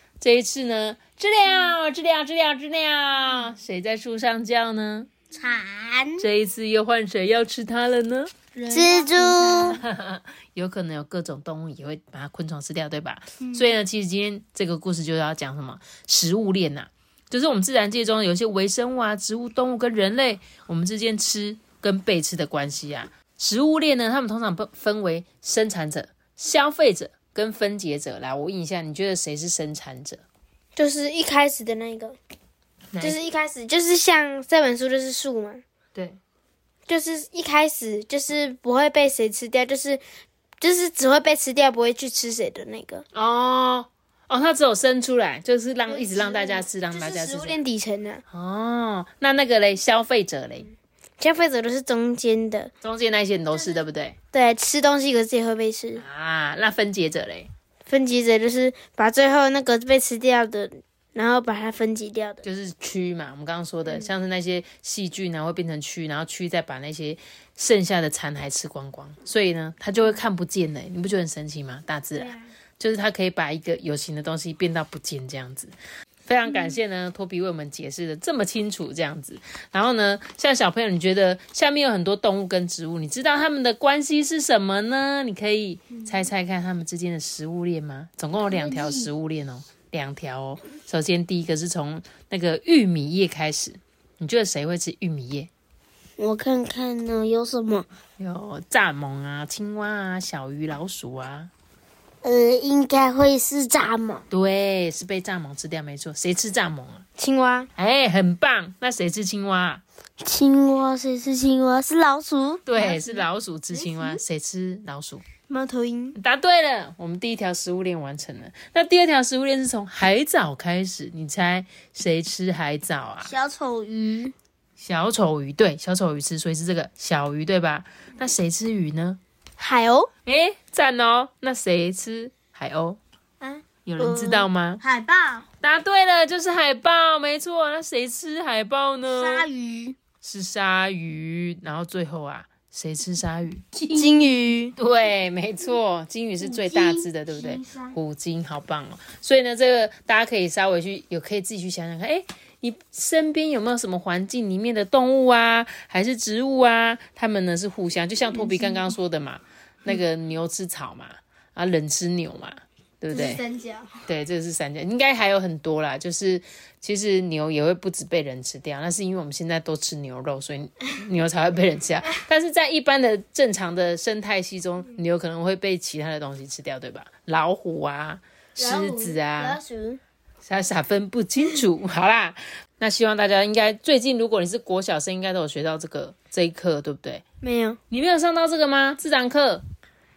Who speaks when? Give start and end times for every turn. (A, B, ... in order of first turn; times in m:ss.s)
0:00.2-0:05.1 A
0:05.4-0:06.3 B
0:06.2-0:08.3 A
0:08.6-0:09.8 C
0:08.7-0:09.8 B
0:09.8-0:30.2 A
0:13.4-0:13.7 C
0:30.8-0:32.2 C
0:32.9-0:33.2 A
0:33.0-0:35.6 C
0:36.9-0:40.0 C
0:40.6-0:43.0 C
0:43.1-0:47.6 A
0:45.9-0:48.2 C
0:48.3-0:50.7 A
0:51.2-0:52.7 C
0:52.8-0:54.2 A
0:54.3-0:56.0 C
0:56.0-0:57.5 A
0:57.9-1:02.4 C
1:02.4-1:15.7 A
1:16.3-1:35.5 A
1:36.2-1:37.9 B
1:38.2-1:41.5 A
1:42.2-1:44.2 B
1:44.3-1:47.0 A
1:47.2-1:47.7 C
1:47.8-1:49.8 A
1:50.2-1:52.6 B
1:52.7-1:55.2 A
1:52.8-1:54.2 C
1:55.5-1:56.2 C
1:56.2-2:03.3 A
2:03.4-2:04.2 C
2:04.8-2:09.2 A
2:09.6-2:10.1 C
2:10.3-2:13.0 A
2:13.4-2:15.3 C
2:13.9-2:14.8 A
2:15.6-2:19.5 A
2:19.3-2:20.0 C
2:20.2-2:23.6 A
2:23.9-2:24.8 C
2:24.8-2:43.4 A
2:38.5-2:38.8 C
2:43.1-2:43.9 C
2:44.1-2:59.6 A
2:58.6-3:00.0 C
3:00.4-3:07.2 A
3:07.4-3:07.8 C
3:07.9-3:09.6 A